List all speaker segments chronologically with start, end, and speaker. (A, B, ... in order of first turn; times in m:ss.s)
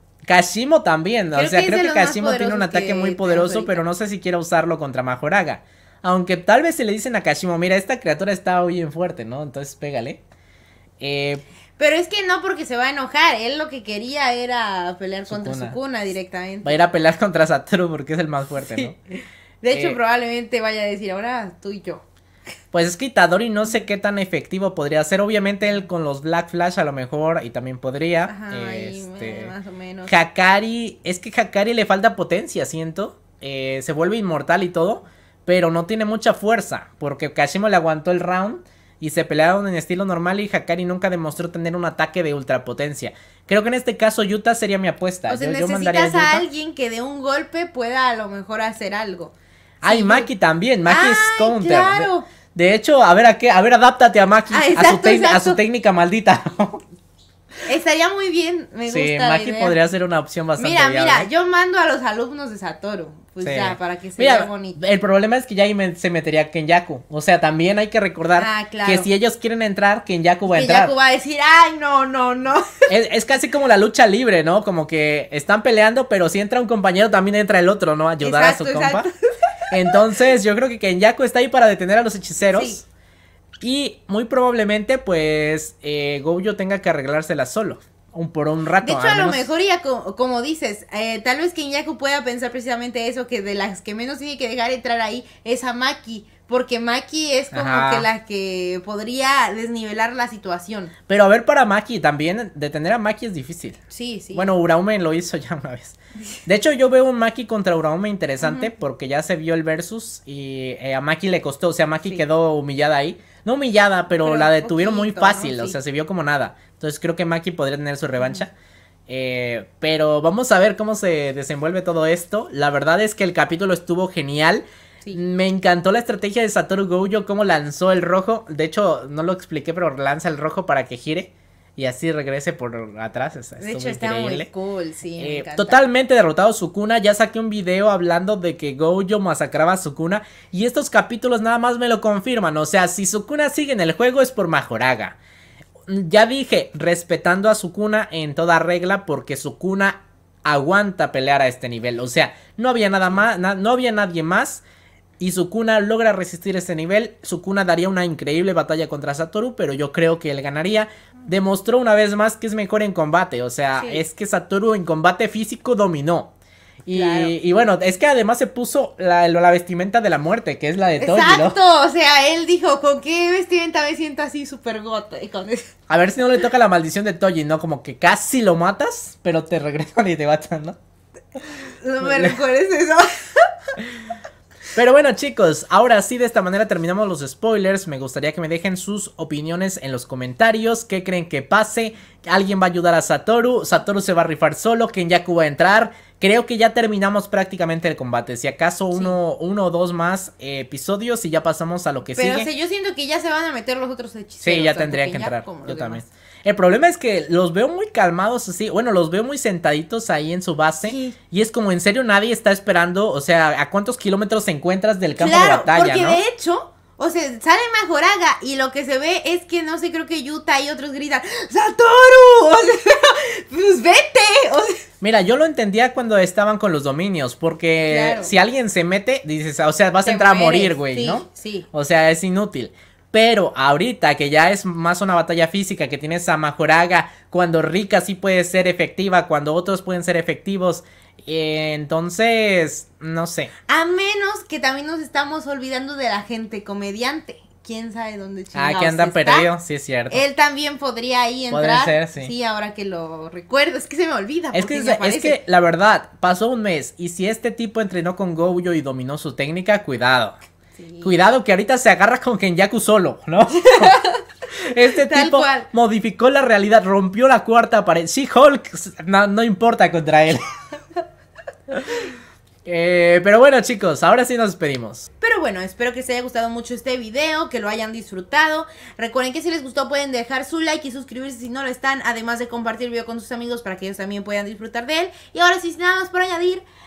0:00.3-0:10.2 A
0:01.3-0:03.8 B
0:11.0-0:11.4 A
0:11.8-0:16.8 B
0:15.3-0:15.8 A
0:16.6-0:19.0 A
0:18.6-0:18.9 B
0:19.6-0:22.0 B
0:19.7-0:20.0 A
0:22.7-0:29.5 A
0:28.3-0:30.1 B
0:30.1-0:46.5 A
0:45.3-0:50.3 B
0:49.8-0:56.8 A
0:50.9-0:52.3 B
0:54.5-0:55.6 B
0:57.6-0:59.8 B
0:58.9-1:01.3 A
1:00.6-1:04.8 B
1:03.4-1:10.9 A
1:08.4-1:09.1 B
1:10.5-1:12.8 B
1:12.9-1:19.1 A
1:18.2-1:19.1 B
1:19.7-1:22.8 A
1:22.4-1:22.8 B
1:23.6-1:29.4 A
1:28.8-1:40.9 B
1:37.5-1:38.1 A
1:41.1-1:43.8 A
1:43.9-1:44.5 B
1:44.3-1:58.5 A
1:48.4-1:48.7 B
1:54.2-1:55.8 B
1:59.1-2:14.5 A
2:13.6-2:15.9 B
2:15.2-2:25.2 A
2:25.9-2:34.6 A
2:35.2-2:46.3 A
2:43.8-2:44.0 B
2:46.8-2:51.6 A
2:46.9-2:47.4 B
2:51.0-2:55.6 B
2:55.9-3:00.8 A
3:01.4-3:03.5 B
3:02.0-3:02.4 A
3:04.7-3:22.5 A
3:22.1-3:26.1 B
3:24.4-3:36.2 A
3:30.8-3:31.2 B
3:35.2-3:44.8 B
3:45.0-4:03.5 A
3:47.9-3:48.3 B
3:50.0-3:51.7 B
4:03.7-4:09.5 B
4:08.5-4:10.2 A
4:10.1-4:15.4 B
4:11.5-4:12.3 A
4:14.5-4:20.4 A
4:20.8-4:21.2 B
4:21.0-4:24.0 A
4:23.6-4:24.2 B
4:24.7-4:30.4 A
4:24.9-4:25.7 B
4:31.7-4:32.1 A
4:32.6-4:35.1 A
4:35.2-4:46.6 B